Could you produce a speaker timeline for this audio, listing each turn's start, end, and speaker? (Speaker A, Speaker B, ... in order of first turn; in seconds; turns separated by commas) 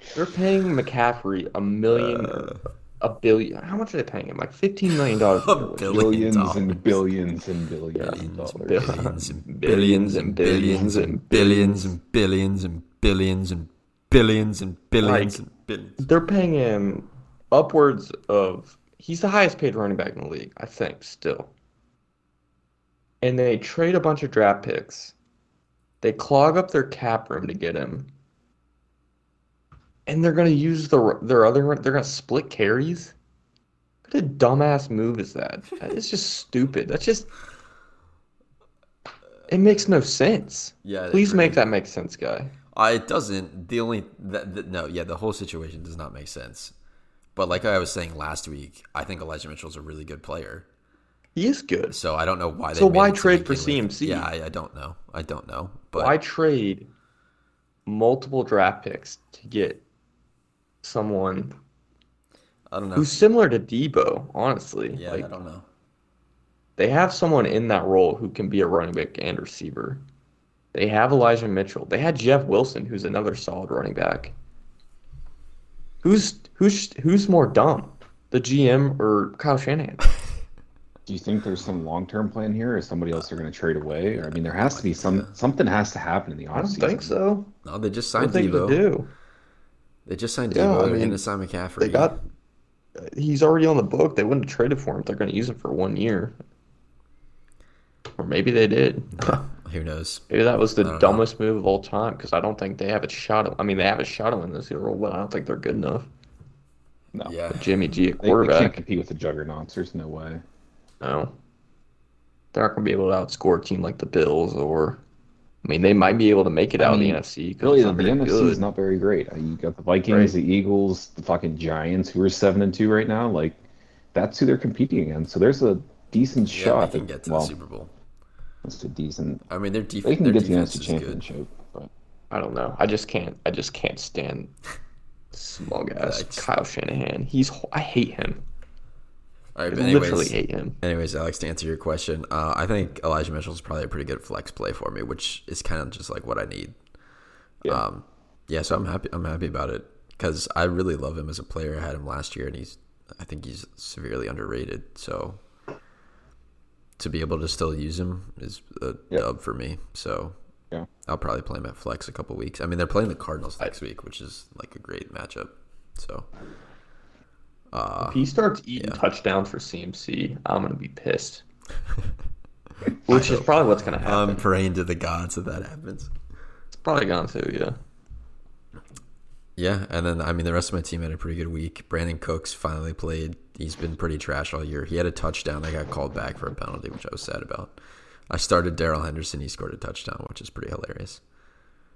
Speaker A: 0.1-6.2, Speaker B: 1.9-2.6, Speaker B: 5.4-7.0, Speaker C: 5.9-9.0, Speaker A: 8.0-11.9, Speaker B: 8.1-16.0, Speaker C: 10.5-10.9, Speaker A: 15.0-15.4, Speaker A: 16.0-21.5, Speaker A: 23.2-25.1, Speaker A: 26.0-28.1, Speaker A: 30.1-33.1, Speaker A: 34.1-37.3, Speaker A: 39.5-42.5, Speaker B: 40.8-41.6, Speaker B: 42.7-46.7, Speaker B: 47.4-50.7, Speaker A: 51.4-52.0, Speaker B: 51.9-56.1, Speaker A: 52.7-54.3, Speaker A: 56.0-56.9, Speaker A: 57.9-59.8, Speaker A: 60.8-61.6, Speaker B: 62.7-63.2, Speaker A: 63.0-65.3, Speaker B: 65.0-65.7, Speaker A: 66.8-70.0, Speaker A: 70.7-74.3, Speaker A: 76.0-80.1, Speaker C: 81.1-87.2, Speaker B: 84.3-85.4, Speaker A: 86.5-87.5, Speaker B: 87.6-88.8, Speaker A: 88.2-89.1, Speaker B: 90.1-92.1, Speaker A: 90.5-91.2, Speaker A: 91.8-92.2, Speaker A: 93.0-96.4, Speaker A: 98.2-99.4, Speaker B: 99.2-100.2, Speaker A: 100.3-106.1, Speaker B: 100.8-101.3, Speaker B: 107.2-107.8, Speaker A: 107.5-108.8, Speaker C: 108.2-110.4, Speaker A: 111.0-111.3, Speaker A: 112.5-115.0, Speaker A: 115.6-118.7, Speaker C: 116.8-123.6, Speaker A: 120.1-120.3, Speaker C: 124.1-127.5, Speaker B: 126.5-127.9, Speaker C: 128.6-129.4, Speaker B: 129.5-131.3, Speaker C: 130.0-131.9, Speaker A: 132.3-134.5, Speaker A: 135.3-138.4, Speaker B: 136.0-136.5, Speaker B: 139.6-146.8, Speaker A: 139.7-140.8, Speaker B: 147.7-155.4, Speaker B: 157.0-160.4, Speaker B: 161.1-166.3, Speaker B: 167.7-168.2, Speaker A: 168.0-171.4, Speaker B: 168.8-169.0, Speaker A: 173.1-174.5, Speaker B: 173.1-176.1, Speaker A: 176.8-177.8, Speaker B: 179.6-187.7, Speaker B: 188.3-191.2